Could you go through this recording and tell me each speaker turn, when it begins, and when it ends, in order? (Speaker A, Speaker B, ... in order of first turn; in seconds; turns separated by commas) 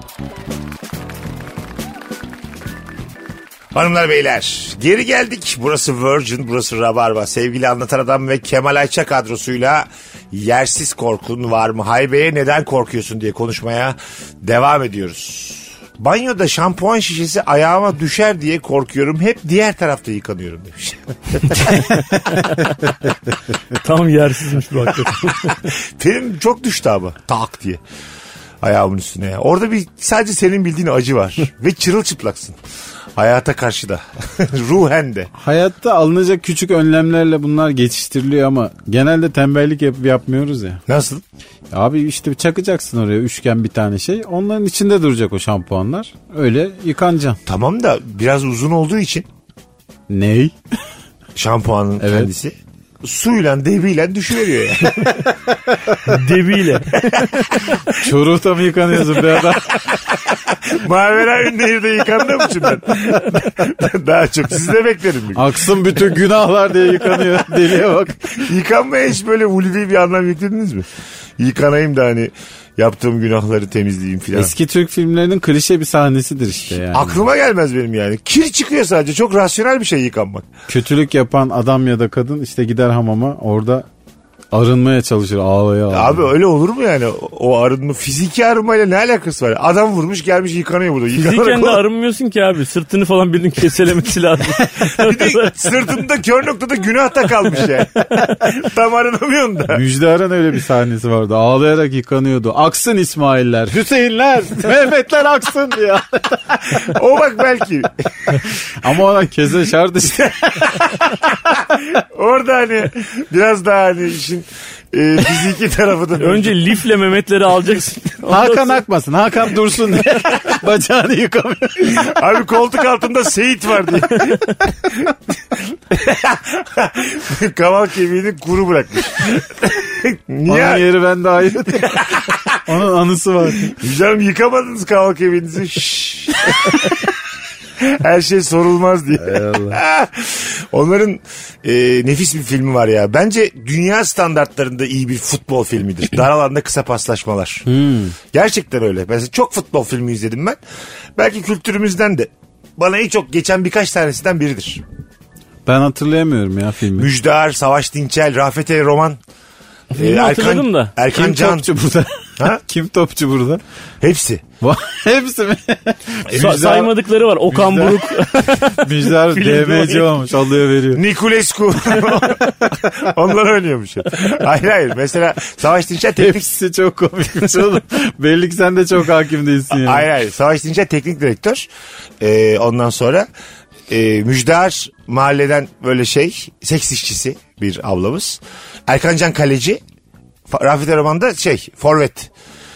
Speaker A: 3.7-21.9, Speaker B: 21.7-22.8, Speaker B: 23.7-25.6, Speaker A: 25.6-27.8, Speaker A: 28.6-32.5, Speaker A: 33.2-35.3, Speaker C: 35.4-40.8, Speaker A: 40.9-41.2, Speaker C: 41.7-47.4, Speaker A: 47.5-49.2, Speaker C: 50.1-50.5, Speaker A: 51.4-55.3, Speaker C: 52.0-52.3, Speaker B: 56.0-57.4, Speaker A: 57.2-58.0, Speaker C: 58.0-59.8, Speaker A: 59.1-65.5, Speaker C: 65.3-68.4, Speaker A: 68.4-70.8, Speaker A: 71.4-74.5, Speaker C: 74.3-77.2, Speaker A: 76.9-80.5, Speaker C: 80.7-83.9, Speaker C: 84.5-86.3, Speaker A: 85.9-91.8, Speaker B: 91.1-95.7, Speaker A: 94.7-99.8, Speaker C: 99.7-106.9, Speaker A: 106.7-108.4, Speaker C: 108.8-110.9, Speaker A: 110.6-116.6, Speaker B: 116.2-118.8, Speaker C: 118.3-122.2, Speaker A: 121.9-130.8, Speaker C: 130.5-132.1, Speaker A: 131.7-132.6, Speaker C: 132.7-133.8, Speaker A: 133.7-137.1, Speaker A: 137.8-147.7, Speaker C: 139.2-139.8, Speaker C: 147.7-148.2, Speaker A: 148.3-150.6, Speaker A: 151.2-154.8, Speaker C: 155.7-157.1, Speaker A: 156.9-159.2, Speaker B: 159.9-160.9, Speaker A: 159.9-161.7, Speaker C: 161.1-163.6, Speaker A: 164.0-164.4, Speaker C: 164.6-166.9, Speaker B: 166.3-170.1, Speaker C: 167.4-171.0, Speaker A: 170.9-176.4, Speaker C: 176.2-180.1, Speaker A: 179.7-181.7, Speaker A: 182.2-183.3, Speaker A: 183.9-189.8, Speaker A: 190.5-192.3